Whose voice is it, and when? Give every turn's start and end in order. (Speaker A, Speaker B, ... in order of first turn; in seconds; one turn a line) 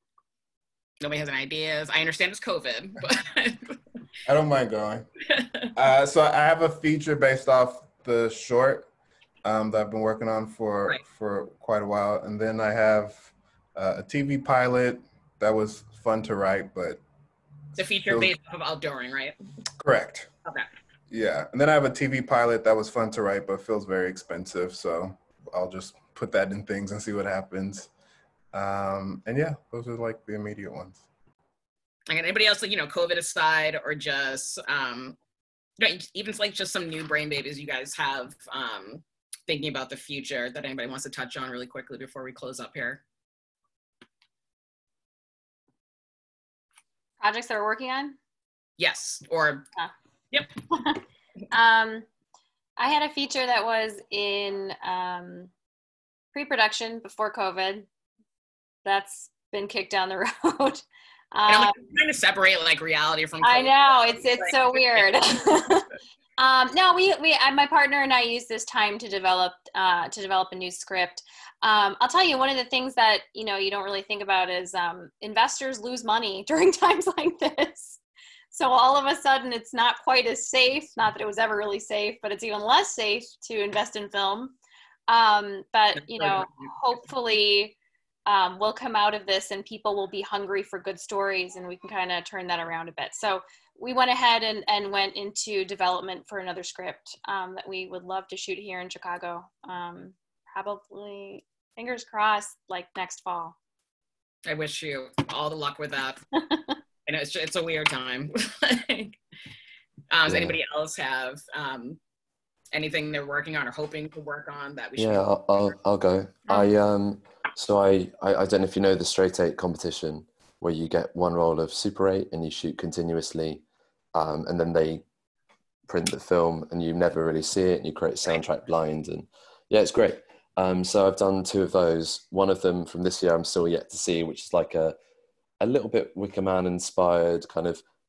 Speaker A: 1.0-3.8
Speaker B: 4.3-5.1
Speaker A: 5.3-5.7
Speaker B: 5.7-8.9
Speaker B: 9.4-17.0
Speaker A: 17.8-19.4
Speaker B: 18.1-18.3
Speaker B: 19.8-20.3
Speaker B: 21.1-27.9
Speaker B: 28.5-31.1
Speaker A: 32.1-35.2
Speaker A: 35.8-43.0
Speaker C: 47.2-48.2
Speaker A: 48.8-49.7
Speaker C: 50.7-52.1
Speaker C: 52.8-55.5
Speaker C: 56.3-57.9
Speaker C: 58.9-61.8
Speaker A: 61.5-65.1
Speaker C: 63.4-78.0
Speaker C: 78.5-84.5
Speaker C: 85.1-103.5
Speaker A: 86.1-86.7
Speaker A: 104.5-106.2
Speaker C: 106.5-106.7
Speaker A: 107.0-109.2
Speaker A: 110.1-112.0
Speaker D: 110.3-110.6
Speaker A: 112.7-115.7
Speaker D: 115.0-123.6
Speaker D: 124.1-125.0
Speaker D: 125.9-134.9
Speaker D: 135.6-137.8